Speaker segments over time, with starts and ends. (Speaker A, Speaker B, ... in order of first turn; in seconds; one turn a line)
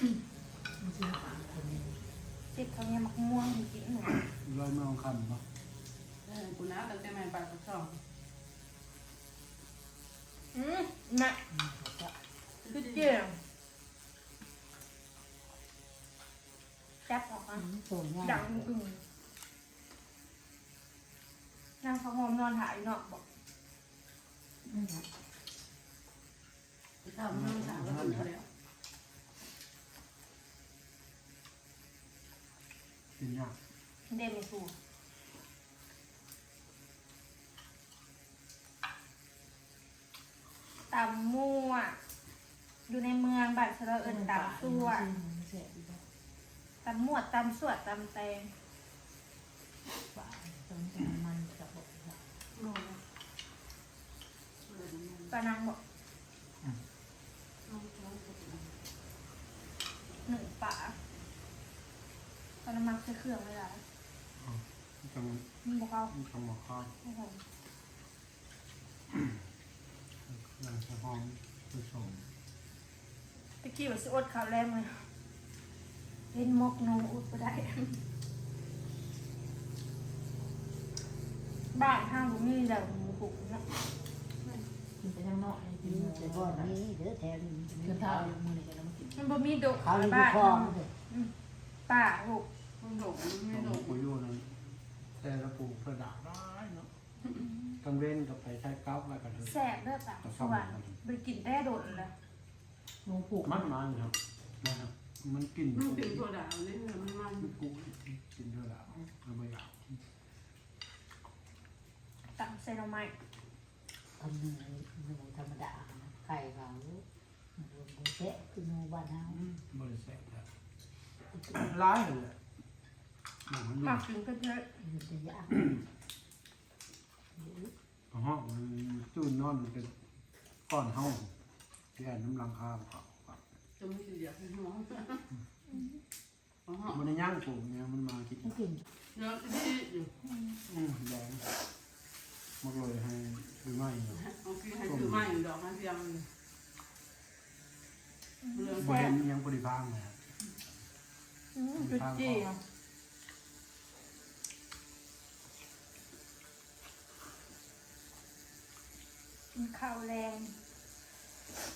Speaker A: 0.8-1.6
Speaker B: 1.2-2.0
Speaker C: 2.5-4.2
Speaker D: 4.3-5.4
Speaker E: 6.2-8.0
Speaker C: 10.5-11.4
Speaker B: 11.5-12.1
Speaker E: 12.7-13.1
Speaker C: 12.7-13.4
Speaker C: 17.1-17.6
Speaker B: 17.5-18.7
Speaker C: 18.2-19.0
Speaker C: 21.8-23.2
Speaker B: 24.7-25.0
Speaker E: 27.0-28.4
Speaker D: 27.3-28.3
Speaker D: 33.2-33.6
Speaker C: 34.1-34.7
Speaker C: 40.9-42.0
Speaker C: 42.9-45.1
Speaker A: 44.0-46.0
Speaker C: 46.8-48.5
Speaker A: 50.1-52.2
Speaker E: 52.6-53.0
Speaker E: 54.7-55.3
Speaker C: 55.3-55.8
Speaker E: 57.7-58.7
Speaker C: 60.3-61.0
Speaker C: 62.6-63.8
Speaker D: 64.4-65.5
Speaker C: 65.6-66.1
Speaker D: 66.1-66.9
Speaker C: 67.0-67.4
Speaker D: 69.1-69.4
Speaker D: 70.3-72.2
Speaker C: 73.6-75.1
Speaker C: 76.3-78.0
Speaker C: 81.7-83.6
Speaker A: 85.0-86.8
Speaker B: 85.8-88.3
Speaker A: 87.7-89.3
Speaker C: 89.2-91.3
Speaker B: 89.8-90.9
Speaker C: 91.9-92.5
Speaker E: 92.8-94.0
Speaker D: 93.5-96.9
Speaker D: 97.8-101.0
Speaker C: 99.4-102.1
Speaker A: 103.0-103.7
Speaker D: 103.4-106.2
Speaker E: 105.7-107.6
Speaker D: 107.4-110.0
Speaker C: 112.3-113.1
Speaker B: 114.2-117.0
Speaker B: 117.6-119.4
Speaker D: 119.3-120.5
Speaker B: 121.3-121.7
Speaker D: 121.5-122.4
Speaker D: 123.5-124.1
Speaker C: 123.8-124.7
Speaker B: 124.8-125.8
Speaker B: 127.4-127.7
Speaker D: 128.1-129.9
Speaker D: 130.7-131.3
Speaker D: 132.0-133.4
Speaker E: 133.8-135.3
Speaker E: 136.7-137.0
Speaker D: 136.9-138.6
Speaker B: 138.4-138.8
Speaker E: 139.1-140.1
Speaker C: 140.3-140.6
Speaker D: 140.7-141.4
Speaker D: 142.6-144.2
Speaker E: 144.2-146.3
Speaker D: 144.8-145.4
Speaker C: 148.4-149.2
Speaker E: 148.5-149.1
Speaker D: 148.8-150.2
Speaker C: 151.6-152.6
Speaker D: 151.8-152.5
Speaker C: 159.5-160.6